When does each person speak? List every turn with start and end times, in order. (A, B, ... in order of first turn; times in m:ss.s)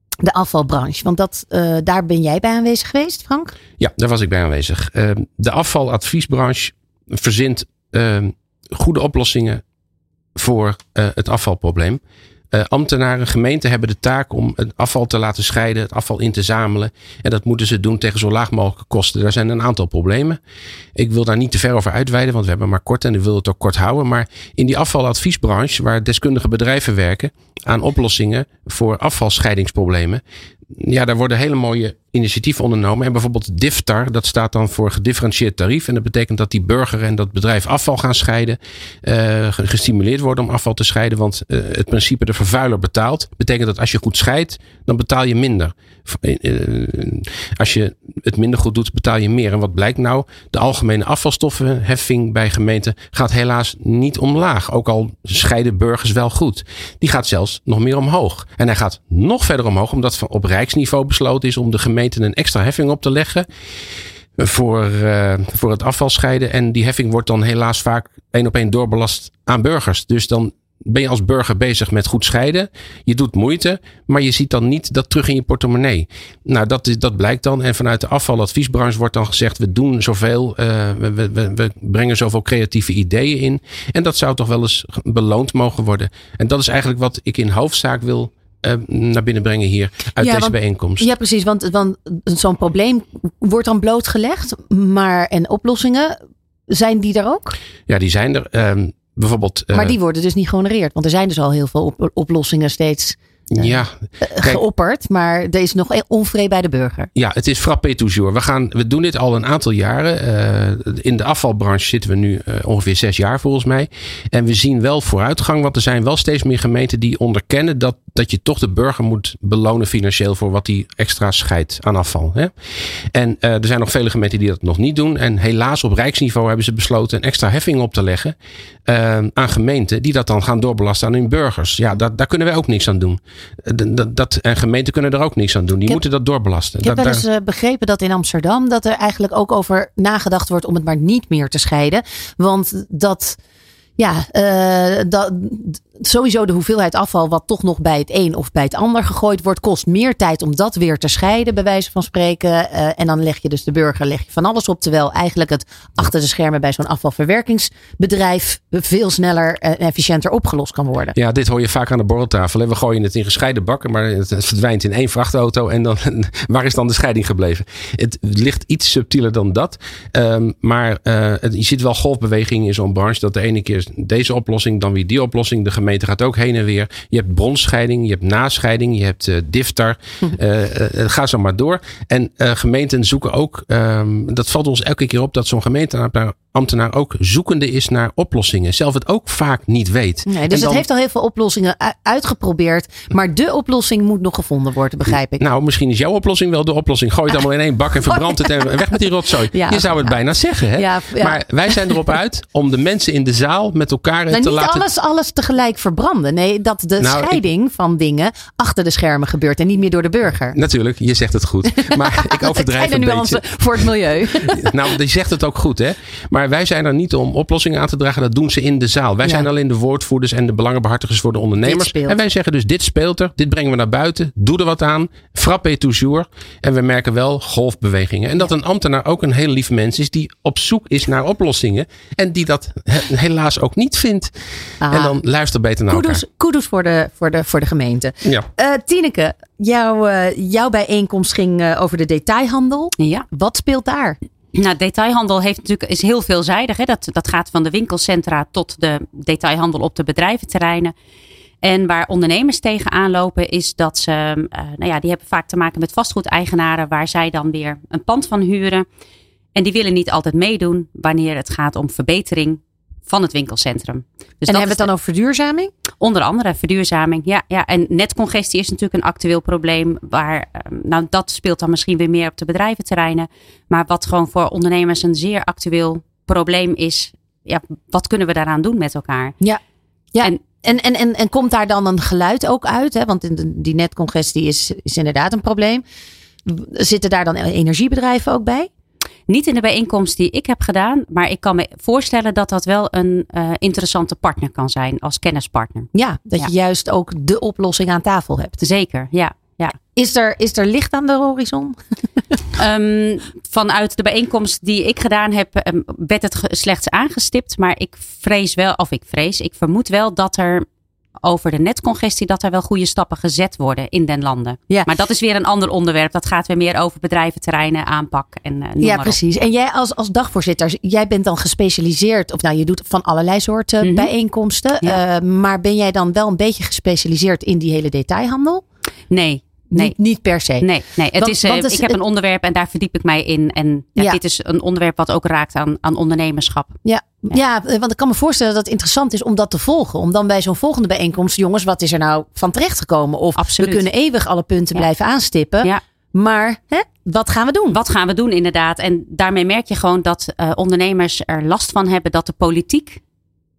0:00.2-0:03.5 A
0:03.8-0:09.6 B
0:10.4-0:12.0 B
0:12.5-0:20.4 B
0:21.0-0:30.2 B
0:30.8-1:03.5 B
1:04.4-1:31.1 B
1:30.2-1:36.2 A
1:36.7-1:37.6 A
1:37.9-1:40.0 B
1:39.7-1:47.1 A
1:43.5-1:43.9 B
1:47.2-2:02.5 B
2:03.1-2:08.4 B
2:08.9-2:17.2 B
2:16.8-2:23.4 A
2:24.0-2:41.2 A
2:41.2-3:10.8 B
3:10.3-3:15.4 A
3:15.4-3:24.9 B
3:19.5-3:20.2 A
3:20.7-3:21.9 A
3:24.3-3:30.6 A
3:27.0-3:27.4 B
3:30.5-3:33.4 B
3:31.8-3:34.8 A
3:34.4-3:54.3 B
3:41.6-3:42.2 A
3:54.8-3:55.2 A
3:54.9-3:56.2 B
3:55.9-4:04.2 A
4:03.0-4:03.2 C
4:04.6-4:10.9 C
4:11.6-4:18.9 C
4:19.5-4:24.9 C
4:24.5-4:25.7 A
4:26.0-4:39.4 C
4:40.1-4:45.8 A
4:46.4-4:48.7 A
4:49.3-4:55.9 C
4:55.9-4:58.6 A
4:58.6-4:59.8 C
4:59.9-5:01.8 A
5:02.6-5:10.7 C
5:11.2-5:19.1 C
5:18.8-5:28.6 A
5:29.1-5:29.9 C
5:29.7-5:32.0 A
5:30.6-5:36.7 C
5:36.8-5:47.8 A
5:43.4-5:43.8 C
5:47.8-5:53.0 C